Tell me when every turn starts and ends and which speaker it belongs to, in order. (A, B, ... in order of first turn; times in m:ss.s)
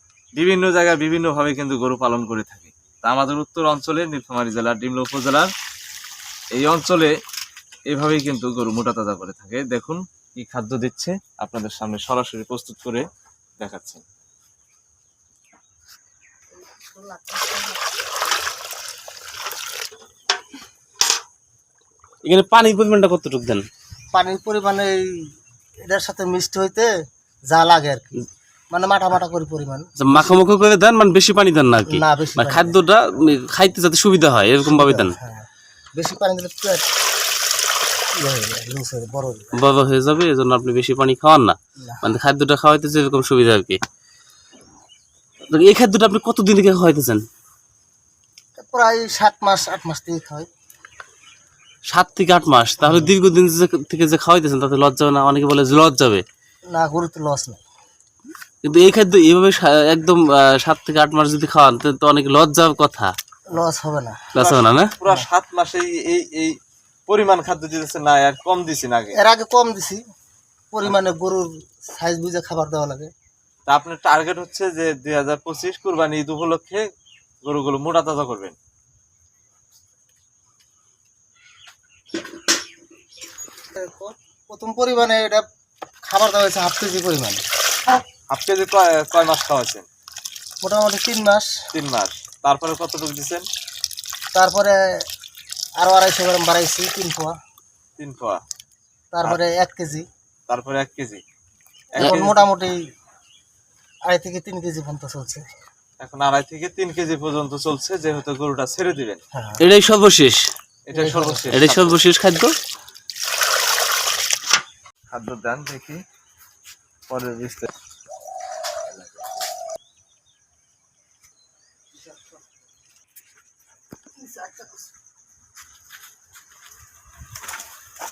0:00.4-0:05.5 A
0:06.5-0:07.1 A
0:07.9-0:13.1 A
0:13.6-0:14.0 A
0:16.6-0:17.9 B
0:22.2-0:23.6 C
0:24.1-0:25.3 B
0:25.9-0:26.9 B
0:27.5-0:30.4 B
0:30.0-0:35.2 C
0:31.9-0:32.8 B
0:34.6-0:36.9 B
0:38.2-0:39.6 B
0:39.5-0:43.8 C
0:41.8-0:42.1 B
0:45.5-0:47.2 C
0:48.6-0:50.5 B
0:51.9-0:56.2 C
0:52.8-0:53.1 B
0:56.7-0:57.6 B
0:58.6-1:03.1 C
1:03.5-1:04.3 B
1:04.3-1:04.9 C
1:04.4-1:09.2 A
1:09.1-1:10.0 B
1:10.7-1:13.1 B
1:13.7-1:16.8 A
1:17.4-1:18.6 A
1:23.7-1:25.5 B
1:26.1-1:27.4 B
1:28.3-1:29.8 A
1:30.6-1:31.5 B
1:31.7-1:33.5 A
1:34.4-1:34.8 B
1:35.8-1:37.4 B
1:38.0-1:38.4 A
1:39.1-1:40.1 B
1:40.5-1:41.2 A
1:41.9-1:42.8 B
1:41.9-1:42.5 A
1:44.1-1:45.5 B
1:46.0-1:49.2 A
1:49.4-1:49.6 B
1:49.6-1:50.5 C
1:50.9-1:52.0 A
1:50.9-1:51.5 B
1:51.5-1:52.5 C
1:55.1-1:56.0 A
1:57.1-1:57.7 A
2:01.9-2:02.4 B
2:04.2-2:04.9 B